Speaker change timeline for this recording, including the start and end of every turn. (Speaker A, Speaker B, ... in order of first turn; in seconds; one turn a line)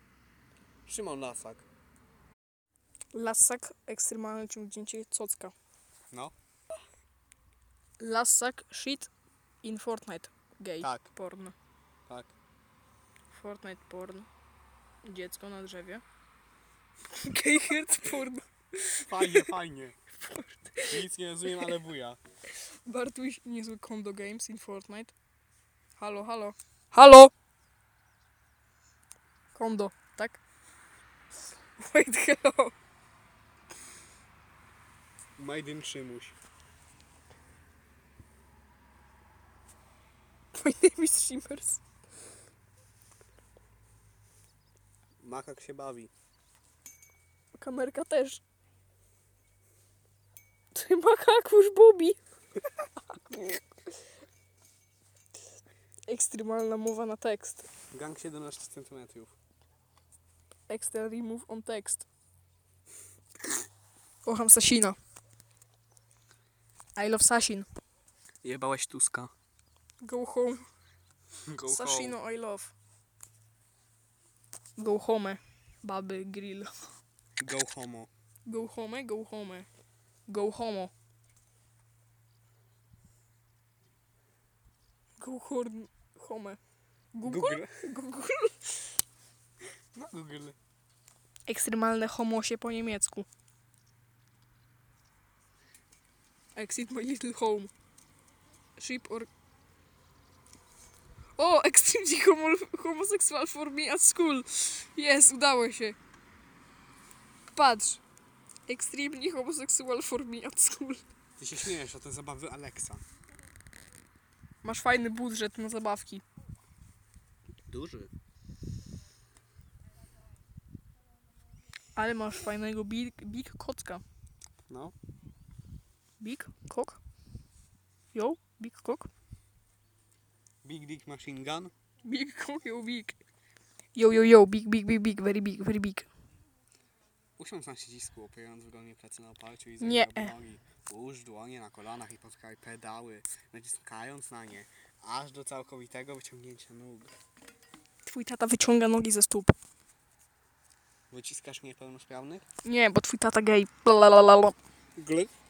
Speaker A: 0.9-1.6
Speaker B: 3.1-5.5
Speaker B: 8.0-9.1
Speaker B: 9.6-11.6
Speaker A: 10.8-11.1
Speaker A: 12.1-12.3
Speaker B: 13.3-14.3
Speaker B: 15.0-16.0
Speaker B: 17.1-19.5
Speaker A: 19.1-20.0
Speaker B: 20.2-21.0
Speaker A: 20.9-22.2
Speaker B: 22.9-25.1
Speaker B: 26.0-27.3
Speaker B: 29.6-30.4
Speaker B: 31.8-32.7
Speaker A: 35.4-36.4
Speaker B: 40.5-41.8
Speaker A: 45.2-46.1
Speaker B: 47.5-48.4
Speaker B: 50.7-52.2
Speaker B: 53.1-53.6
Speaker B: 56.1-57.7
Speaker A: 57.9-59.4
Speaker B: 60.7-62.1
Speaker B: 64.2-65.0
Speaker B: 67.0-67.7
Speaker A: 68.4-69.3
Speaker B: 70.0-70.7
Speaker A: 71.5-72.2
Speaker B: 71.7-72.7
Speaker B: 74.8-76.7
Speaker A: 77.4-78.1
Speaker B: 78.5-79.7
Speaker B: 80.3-80.9
Speaker B: 85.2-86.6
Speaker B: 87.1-88.8
Speaker A: 87.2-87.8
Speaker A: 90.0-90.6
Speaker B: 91.5-93.3
Speaker B: 96.5-97.7
Speaker B: 98.8-99.3
Speaker B: 101.4-106.0
Speaker B: 107.5-108.0
Speaker B: 108.7-111.0
Speaker A: 111.4-113.0
Speaker B: 114.6-116.2
Speaker A: 117.7-118.1
Speaker B: 122.0-124.0
Speaker A: 124.7-125.0
Speaker B: 126.2-127.0
Speaker B: 128.1-129.1
Speaker A: 130.6-131.7
Speaker B: 132.0-133.2
Speaker B: 133.9-136.1
Speaker A: 137.4-147.1
Speaker B: 139.8-140.3
Speaker B: 148.0-149.6
Speaker A: 151.1-152.4
Speaker B: 152.6-154.6
Speaker A: 155.0-155.3